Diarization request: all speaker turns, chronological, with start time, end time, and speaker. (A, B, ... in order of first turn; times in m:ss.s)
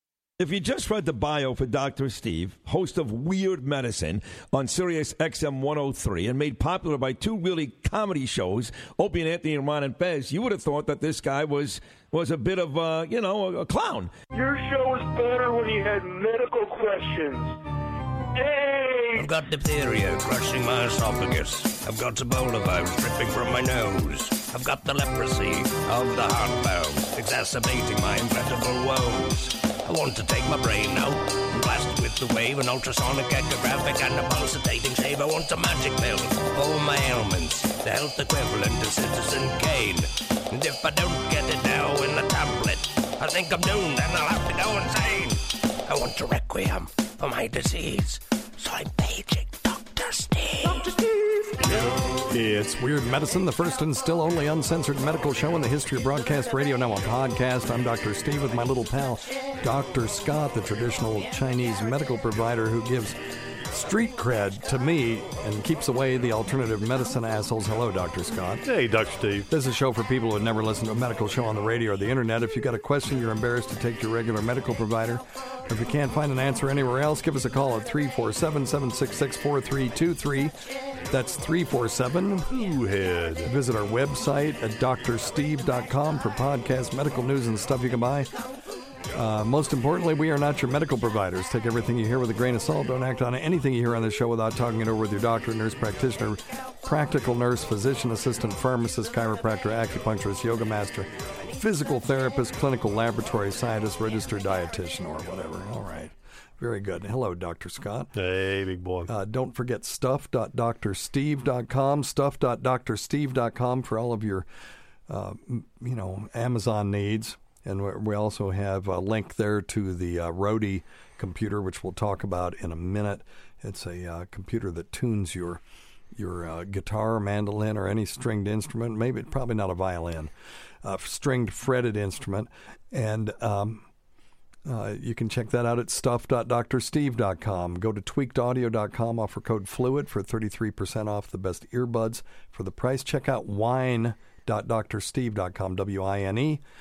0:00.4-0:14.1 A
0:14.3-0:17.6 B
0:18.4-0:19.3 B
0:19.2-0:51.0 C
0:52.3-1:03.2 D
1:03.7-1:08.6 D
1:08.6-1:09.5 E
1:09.5-1:20.5 D
1:21.1-1:22.5 D
1:22.5-1:23.5 E
1:23.4-1:28.3 D
1:29.1-1:48.1 D
1:48.2-1:49.1 E
1:49.1-1:54.5 D
1:55.1-2:05.6 D
2:06.2-2:10.3 D
2:10.8-2:13.9 D
2:14.7-2:26.6 D